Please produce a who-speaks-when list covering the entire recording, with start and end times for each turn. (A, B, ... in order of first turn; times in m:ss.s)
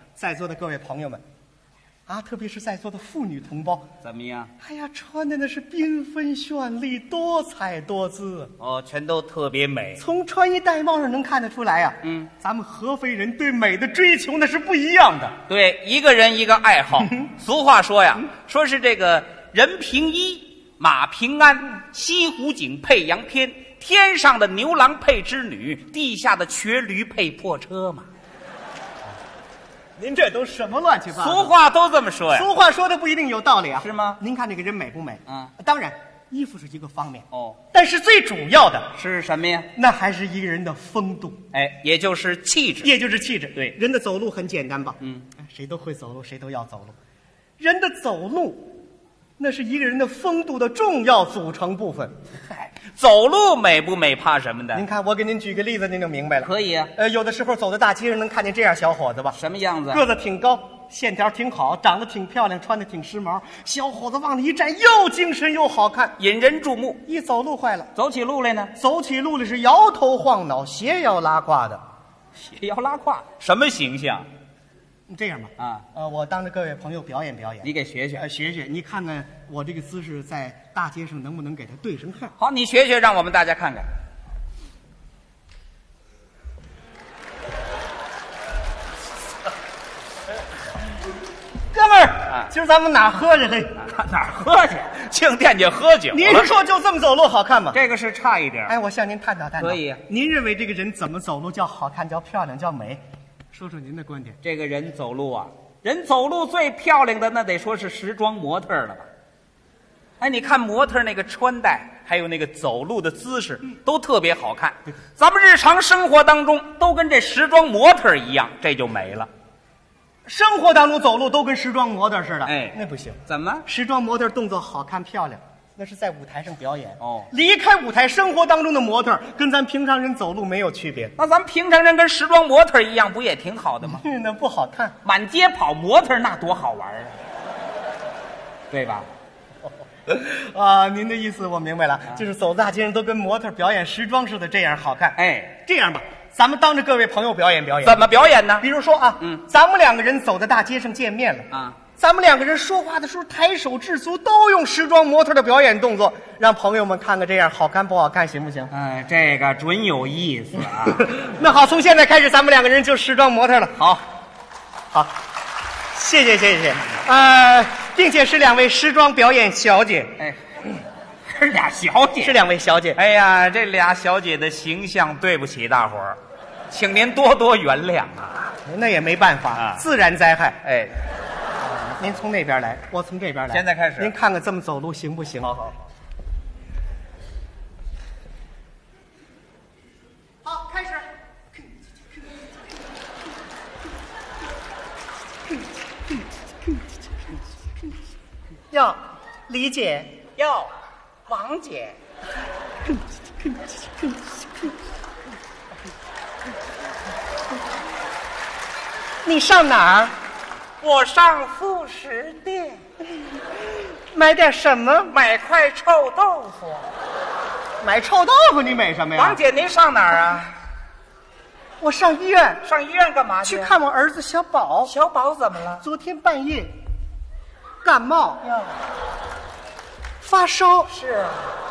0:00.2-0:01.2 A
0:02.1-0:03.9 A
0:04.0-0:04.5 B
0:04.6-0:08.5 A
0:08.6-0:10.0 B
0:10.0-0:15.4 A
0:12.0-0:12.3 B
0:15.5-0:28.0 B
0:30.0-0:31.5 A
0:31.1-0:32.5 B
0:32.3-0:38.9 A
0:33.8-0:34.2 B
0:37.3-0:37.6 B
0:38.9-0:39.7 B
0:39.7-0:41.4 A
0:41.5-0:42.9 B
0:42.8-0:46.9 A
0:45.0-0:45.3 B
0:47.6-0:48.7 A
0:49.4-0:52.1 A
0:52.4-0:54.8 B
0:54.7-0:59.4 A
0:56.4-0:56.9 B
0:59.3-1:00.0 B
0:59.9-1:06.1 A
1:06.2-1:07.0 B
1:07.0-1:07.9 A
1:07.9-1:08.7 B
1:08.8-1:11.8 A
1:12.3-1:14.3 B
1:15.1-1:22.3 A
1:15.6-1:15.8 B
1:17.6-1:18.2 B
1:22.4-1:23.9 B
1:31.7-1:33.8 A
1:33.8-1:36.5 B
1:36.1-1:37.8 A
1:37.7-1:38.7 B
1:38.7-1:43.0 A
1:39.6-1:40.0 B
1:43.5-1:44.4 A
1:44.4-1:49.1 B
1:50.2-1:59.3 B
2:00.2-2:11.1 A
2:02.4-2:03.6 B
2:07.0-2:07.3 B
2:11.2-2:14.0 B
2:13.8-2:15.0 A
2:15.0-2:17.1 B
2:18.7-2:19.1 B
2:20.1-2:38.7 A
2:25.2-2:25.5 B
2:27.8-2:28.6 B
2:31.5-2:31.8 B
2:38.7-2:41.1 B
2:40.9-2:43.8 A
2:43.8-2:44.0 B
2:45.9-2:50.2 A
2:51.2-2:52.4 B
2:52.2-2:53.0 A
2:53.0-2:56.2 B
2:56.7-2:58.5 B
2:58.6-3:00.6 A
2:59.5-2:59.8 B
3:00.6-3:01.0 B
3:01.6-3:05.7 A
3:03.5-3:04.1 B
3:10.4-3:11.0 A
3:18.7-3:20.2 A
3:20.4-3:20.7 B
3:21.3-3:22.0 B
3:29.2-3:30.1 A
3:30.8-3:32.8 B
3:34.1-3:35.2 A
3:35.1-3:36.9 B
3:37.8-3:39.4 A
3:39.2-3:40.5 B
3:41.8-3:42.6 A
3:42.6-3:43.8 B
3:43.4-3:44.9 A
3:44.8-3:45.8 B
3:45.7-3:46.7 A
3:47.8-3:48.4 A
3:48.4-3:48.8 B
3:50.2-3:50.9 A
3:50.9-3:51.5 B